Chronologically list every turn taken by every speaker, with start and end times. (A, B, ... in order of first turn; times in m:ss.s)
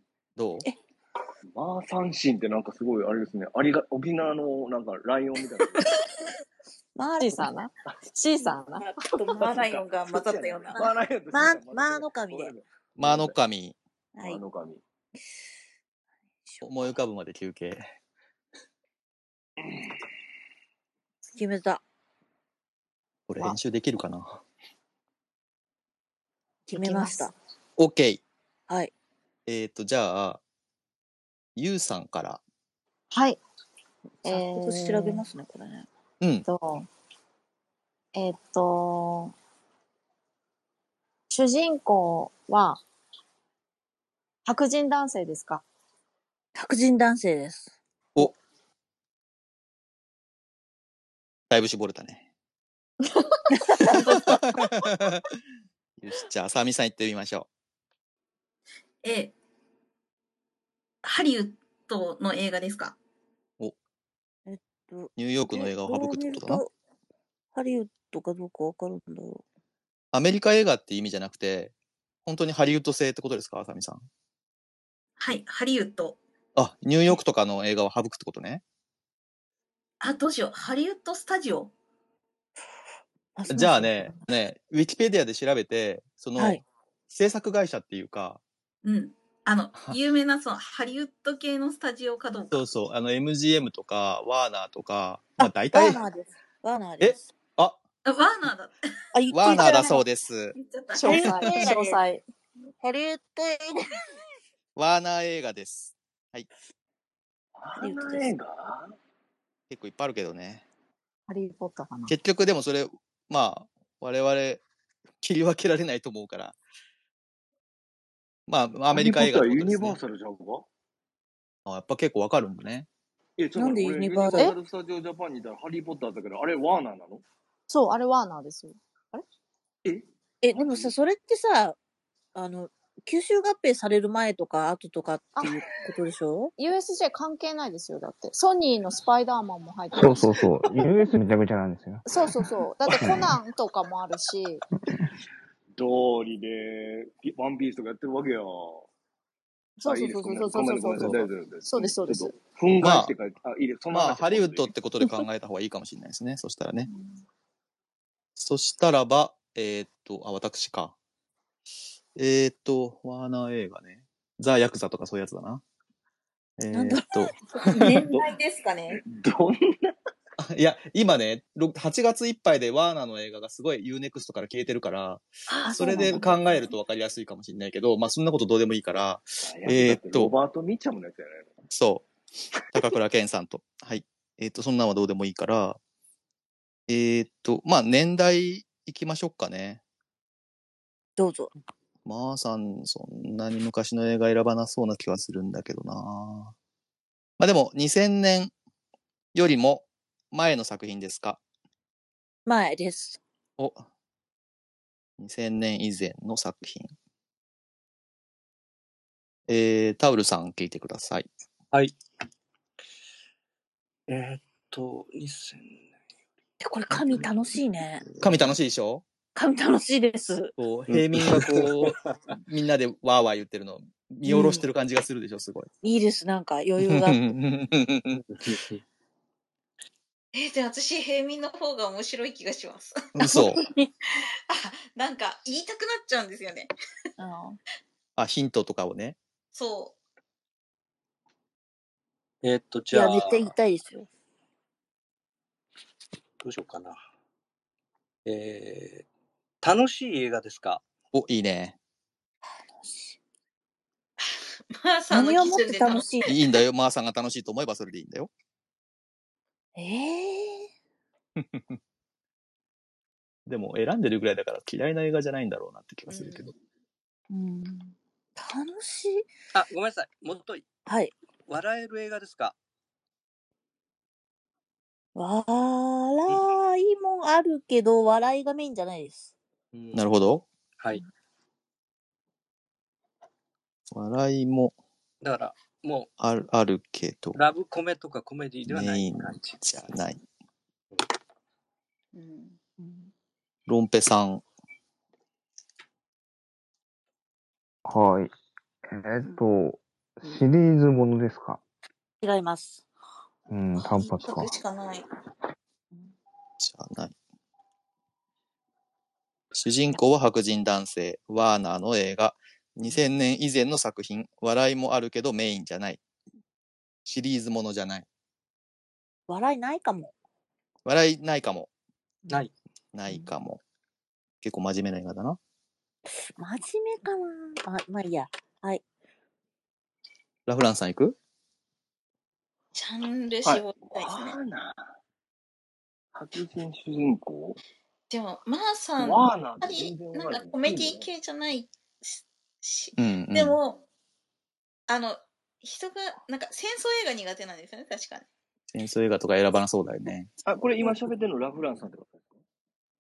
0:00.4-0:00.7 A
0:01.5-0:05.9 B
0:07.0-0:07.5 C
0:07.2-0:08.8 D
0:08.8-0:10.9 E
0:09.2-0:13.4 B
0:11.3-0:12.5 C
0:13.0-0:13.8 A
0:14.2-0:14.4 C
0:14.2-0:14.8 B
0:16.4-0:16.9 C
0:16.6-0:17.9 A
0:21.3-0:21.8 C
0:23.3-0:24.4 A
0:26.7-0:27.3 C
0:26.7-0:27.3 D
0:27.8-0:28.2 A
0:29.5-0:30.4 A
0:31.6-0:32.4 A
0:33.1-0:33.4 D
0:34.2-0:35.2 D
0:34.2-0:35.9 C
0:36.2-0:36.5 A
0:36.4-0:36.9 D
0:38.2-0:39.3 D
0:41.3-0:42.8 D
0:44.4-0:45.6 D
0:46.6-0:47.7 C
0:51.5-0:52.3 A
0:53.7-0:54.4 C
0:54.1-0:55.2 A
0:56.0-0:57.5 A
0:59.0-0:59.3 E
1:01.0-1:03.0 E
1:04.5-1:06.7 C
1:05.2-1:06.6 A
1:07.5-1:09.4 C
1:10.1-1:11.7 A
1:12.2-1:14.0 A
1:15.2-1:16.2 E
1:16.6-1:18.6 A
1:20.0-1:21.7 E
1:23.4-1:24.2 C
1:23.5-1:28.4 A
1:26.4-1:26.6 C
1:28.8-1:32.6 E
1:32.5-1:36.0 A
1:35.4-1:37.3 C
1:37.0-1:37.8 A
1:38.0-1:38.8 E
1:39.1-1:40.0 C
1:39.3-1:40.6 A
1:39.4-1:40.0 E
1:40.6-1:41.3 E
1:41.0-1:42.0 C
1:41.0-1:42.2 D
1:41.2-1:41.6 A
1:42.8-1:43.8 C
1:44.8-1:46.5 A
1:47.6-1:48.9 B
1:47.8-1:48.3 C
1:49.7-1:50.6 A
1:51.3-1:52.2 D
1:52.1-1:54.6 A
1:55.2-1:56.6 A
1:58.5-2:00.0 A
1:58.9-2:00.7 B
2:01.7-2:02.9 A
2:03.4-2:07.2 B
2:03.6-2:04.6 C
2:07.7-2:09.2 D
2:09.8-2:10.9 B
2:10.4-2:11.8 C
2:12.4-2:16.5 C
2:16.6-2:20.5 D
2:19.9-2:22.2 F
2:22.1-2:24.6 D
2:22.8-2:23.4 F
2:25.8-2:28.9 B
2:29.8-2:32.4 D
2:29.8-2:34.7 B
2:32.8-2:33.1 A
2:33.9-2:36.9 A
2:38.4-2:41.0 A
2:42.2-2:45.6 A
2:46.6-2:48.1 A
2:46.7-2:47.4 C
2:47.6-2:49.0 E
2:48.1-2:48.3 B
2:48.9-2:50.0 B
2:50.4-3:00.3 A
2:55.5-2:56.7 C
2:59.4-3:01.5 B
3:01.7-3:02.1 A
3:02.7-3:05.8 A
3:06.9-3:09.8 A
3:11.2-3:11.5 C
3:12.0-3:16.5 A
3:17.4-3:18.5 A
3:19.3-3:21.4 A
3:22.5-3:23.2 C
3:23.6-3:23.9 A
3:25.2-3:26.9 A
3:29.5-3:31.3 A
3:34.1-3:35.9 G
3:36.6-3:38.1 C
3:37.0-3:37.2 G
3:38.2-3:39.0 A
3:39.4-3:40.6 C
3:40.6-3:45.7 A
3:40.9-3:41.9 G
3:44.2-3:44.7 C
3:45.8-3:47.4 C
3:46.8-3:48.2 A
3:48.3-3:48.8 G
3:50.3-3:53.4 E
3:53.2-3:53.6 A
3:53.6-3:53.8 C
3:54.5-3:56.7 E
3:57.2-3:57.6 C
3:58.2-3:59.2 A
3:59.5-4:00.0 E
4:02.4-4:03.6 G
4:02.9-4:04.1 C
4:06.4-4:07.0 G
4:08.2-4:09.1 G
4:09.6-4:10.8 G
4:11.1-4:11.8 A
4:12.7-4:13.2 C
4:14.7-4:16.4 E
4:15.1-4:16.3 C
4:16.3-4:18.3 A
4:19.8-4:20.7 C
4:21.4-4:21.8 A
4:23.5-4:26.5 A
4:26.1-4:26.5 E
4:27.3-4:29.3 C
4:29.5-4:30.6 G
4:30.9-4:31.1 C
4:31.5-4:32.6 G
4:35.2-4:39.3 C
4:39.7-4:40.0 G
4:39.9-4:40.4 A
4:40.8-4:41.0 G
4:43.9-4:44.8 A
4:45.2-4:46.1 G
4:46.2-4:47.4 A
4:47.4-4:49.6 G
4:48.7-4:50.2 A
4:52.1-4:52.6 E
4:52.8-4:53.0 C
4:53.7-4:54.4 A
4:57.9-4:58.3 F
4:58.9-5:01.6 F
5:02.2-5:02.8 C
5:03.5-5:04.5 F
5:03.8-5:05.1 E
5:06.6-5:07.1 A
5:09.5-5:16.0 A
5:17.1-5:18.1 A
5:19.3-5:20.1 C
5:20.8-5:21.7 A
5:22.9-5:23.6 A
5:24.4-5:25.4 A
5:26.4-5:28.8 C
5:30.5-5:31.2 A
5:32.7-5:34.4 E
5:33.4-5:34.9 B
5:36.1-5:37.6 B
5:38.1-5:43.8 E
5:39.0-5:41.1 B
5:43.0-5:43.6 A
5:44.9-5:48.3 E
5:48.7-5:50.3 A
5:50.5-5:52.4 B